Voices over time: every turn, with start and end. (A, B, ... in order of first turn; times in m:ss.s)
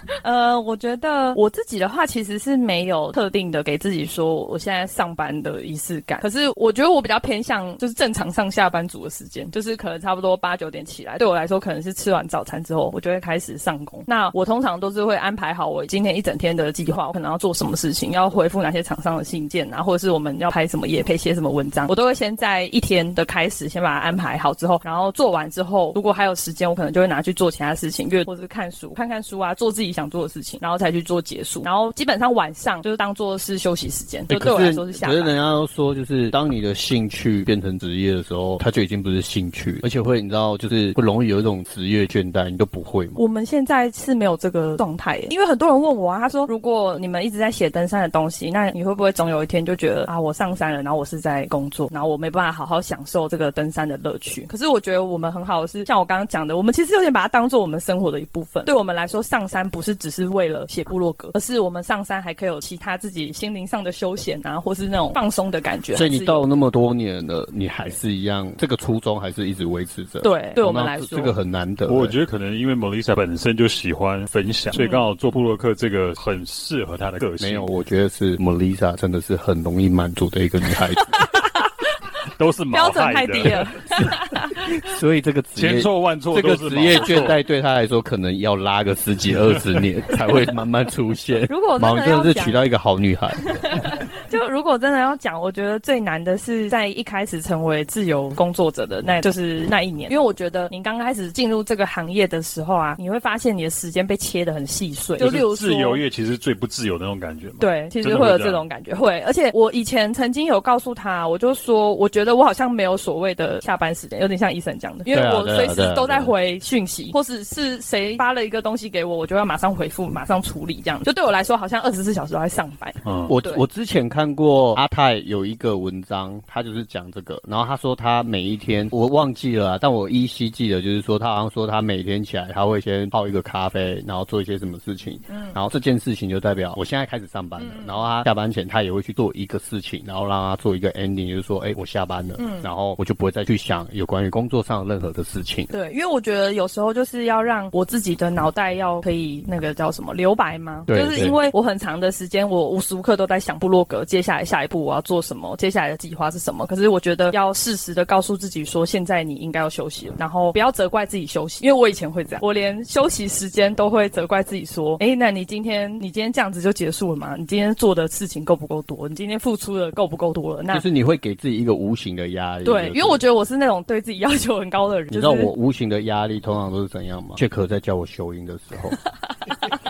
0:00.2-0:35.4 A
0:34.3-0:43.2 B
0:43.2-1:06.5 A
1:05.9-1:12.1 B
1:10.2-1:11.3 A
1:11.9-1:17.7 C
1:14.7-1:15.0 A
1:17.4-1:21.2 B
1:21.1-1:21.7 A
1:22.4-1:23.6 C
1:22.7-1:24.7 A
1:23.9-1:33.7 B
1:25.6-1:27.4 C
1:31.5-1:32.6 A
1:33.5-1:46.0 A
1:45.2-1:48.6 C
1:47.6-2:03.6 A
1:55.1-1:56.3 B
2:03.0-2:03.3 C
2:03.3-2:25.7 B
2:15.3-2:15.6 A
2:17.6-2:18.1 A
2:22.4-2:22.7 A
2:25.7-2:50.8 A
2:30.9-2:31.4 B
2:50.7-2:53.2 B
2:52.6-2:55.5 A
2:55.1-2:59.0 B